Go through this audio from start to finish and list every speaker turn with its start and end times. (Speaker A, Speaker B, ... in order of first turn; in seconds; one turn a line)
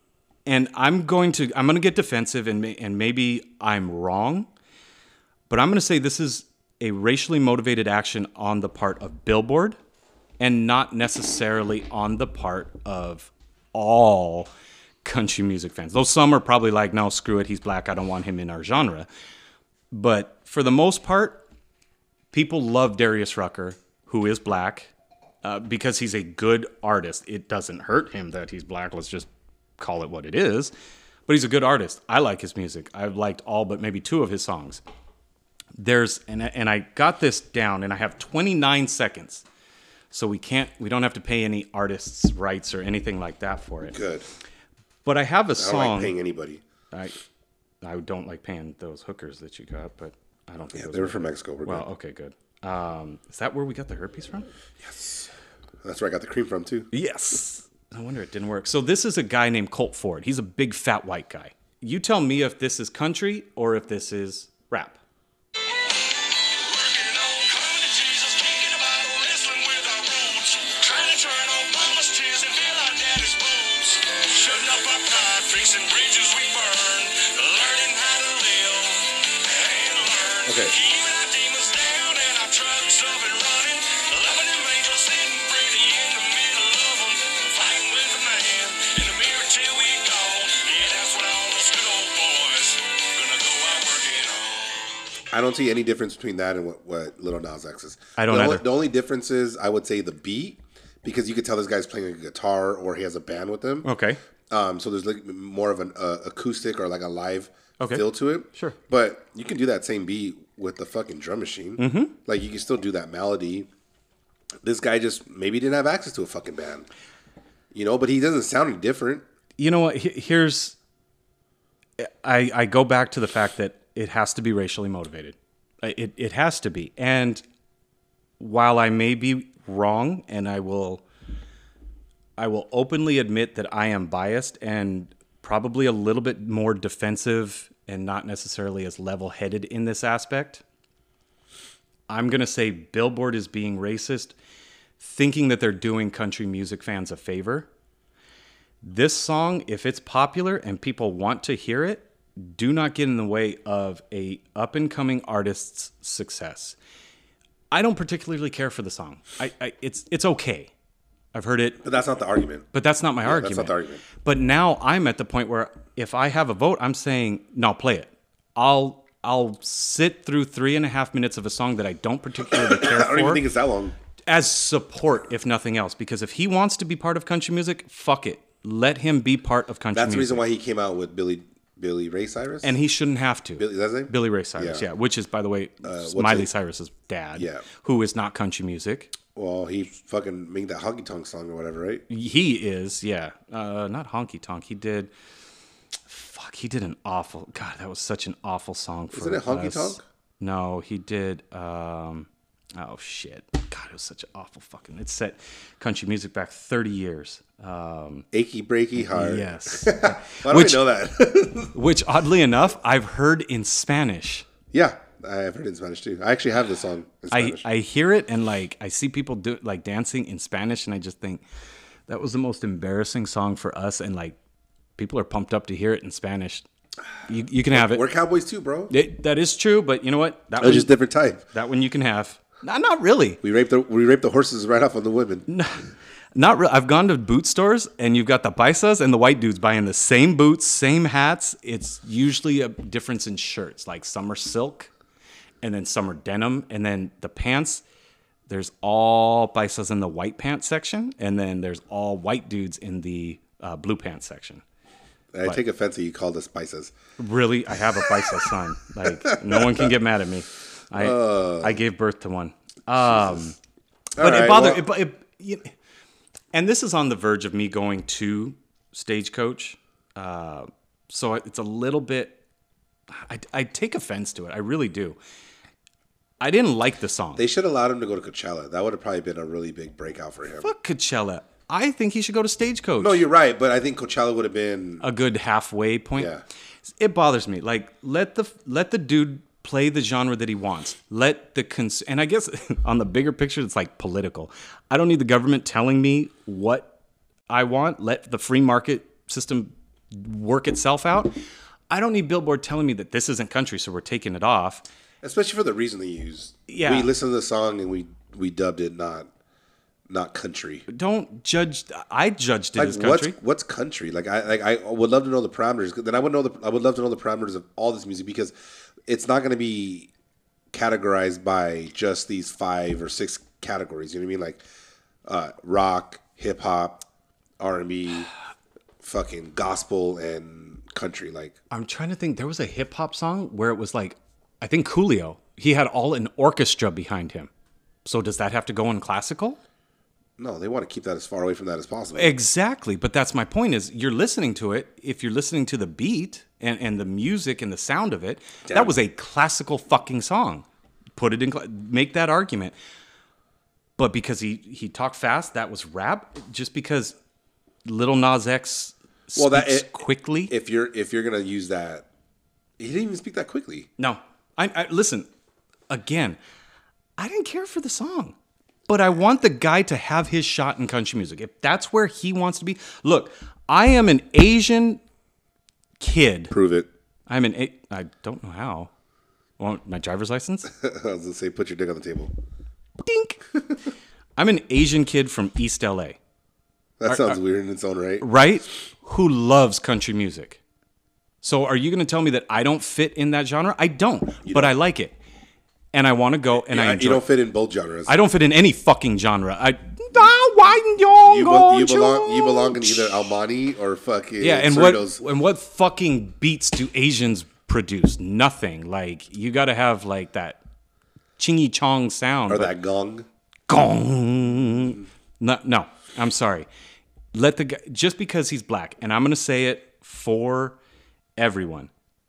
Speaker A: 0.5-4.5
Speaker A: 5.5-9.8
Speaker A: 10.4-14.5
Speaker A: 15.0-19.1
Speaker A: 19.9-21.4
Speaker A: 22.3-24.9
Speaker A: 25.4-30.7
Speaker A: 31.3-34.8
Speaker A: 35.8-39.4
Speaker A: 40.1-44.0
Speaker B: 43.9-44.2
Speaker A: 45.0-46.1
Speaker B: 45.6-46.6
Speaker A: 46.9-47.1
Speaker A: 47.8-54.5
Speaker B: 50.7-51.9
Speaker B: 54.8-55.3
Speaker B: 55.8-56.9
Speaker A: 56.9-65.0
Speaker C: 66.5-94.7
Speaker B: 80.5-80.8
Speaker B: 95.3-103.9
Speaker A: 98.2-98.6
Speaker A: 103.8-104.2
Speaker B: 104.5-113.7
Speaker A: 107.8-108.8
Speaker A: 111.8-112.1
Speaker B: 114.6-116.9
Speaker B: 117.7-119.2
Speaker A: 119.6-120.8
Speaker A: 122.0-127.4
Speaker A: 128.4-131.0
Speaker A: 132.4-140.6
Speaker A: 142.1-144.3
Speaker A: 145.0-147.7
Speaker A: 148.8-156.8
Speaker A: 157.7-160.7
Speaker A: 161.3-161.8
Speaker B: 161.8-162.7
Speaker A: 162.7-173.4
Speaker B: 163.2-164.0
Speaker B: 172.5-173.9
Speaker A: 174.3-180.4
Speaker B: 179.9-182.8
Speaker A: 182.6-189.1
Speaker B: 183.6-184.9
Speaker B: 185.8-186.5
Speaker B: 187.3-187.6
Speaker B: 189.3-192.0
Speaker A: 192.1-195.1
Speaker A: 196.1-208.2
Speaker B: 199.1-200.0
Speaker B: 208.3-211.8
Speaker A: 209.0-210.8
Speaker A: 211.7-214.5
Speaker B: 214.7-217.7
Speaker A: 217.3-221.4
Speaker A: 222.1-224.3
Speaker A: 225.0-226.7
Speaker A: 227.3-228.0
Speaker B: 227.7-228.9
Speaker A: 228.9-230.9
Speaker B: 230.6-231.4
Speaker A: 231.4-233.4
Speaker B: 233.4-235.4
Speaker A: 235.5-235.8
Speaker A: 236.3-244.9
Speaker A: 245.6-247.8
Speaker A: 248.5-254.6
Speaker B: 255.3-256.9
Speaker A: 257.2-263.5
Speaker B: 258.0-258.5
Speaker B: 259.0-259.9
Speaker B: 260.9-261.8
Speaker B: 263.0-263.5
Speaker B: 264.1-264.9
Speaker A: 264.2-265.7
Speaker A: 266.5-272.4
Speaker A: 273.1-275.2
Speaker A: 276.4-277.4
Speaker B: 277.4-280.7
Speaker A: 280.6-283.2
Speaker B: 283.0-285.1
Speaker A: 285.0-286.3
Speaker B: 286.1-286.4
Speaker A: 286.9-296.9
Speaker A: 297.5-301.3
Speaker A: 301.9-304.8
Speaker B: 305.2-309.3
Speaker A: 306.7-307.1
Speaker B: 310.1-310.9
Speaker A: 310.9-313.3
Speaker B: 312.8-318.5
Speaker B: 319.1-320.1
Speaker B: 320.7-324.6
Speaker B: 325.2-327.0
Speaker B: 327.6-328.3
Speaker B: 329.0-331.5
Speaker A: 331.7-337.5
Speaker A: 338.0-339.6
Speaker B: 340.4-342.4
Speaker A: 342.1-350.6
Speaker B: 348.7-348.9
Speaker A: 351.1-352.7
Speaker A: 354.0-357.1
Speaker A: 357.8-360.5
Speaker B: 359.4-362.1
Speaker B: 362.8-363.9
Speaker A: 364.0-365.3
Speaker A: 365.9-366.4
Speaker A: 367.2-368.3
Speaker A: 368.9-375.0
Speaker A: 376.0-376.5
Speaker B: 376.5-376.9
Speaker A: 377.3-378.9
Speaker A: 379.6-380.7
Speaker B: 380.7-382.3
Speaker A: 383.0-383.4
Speaker A: 384.4-386.2
Speaker B: 387.0-388.2
Speaker A: 387.1-387.4
Speaker A: 388.2-390.6
Speaker A: 391.4-395.1
Speaker B: 394.4-394.7
Speaker A: 395.9-397.2
Speaker B: 396.6-398.1
Speaker A: 398.1-403.3
Speaker B: 401.2-405.2
Speaker A: 404.4-410.6
Speaker A: 411.4-412.7
Speaker B: 412.5-413.2
Speaker A: 413.7-416.7
Speaker A: 417.3-420.8
Speaker A: 421.4-421.9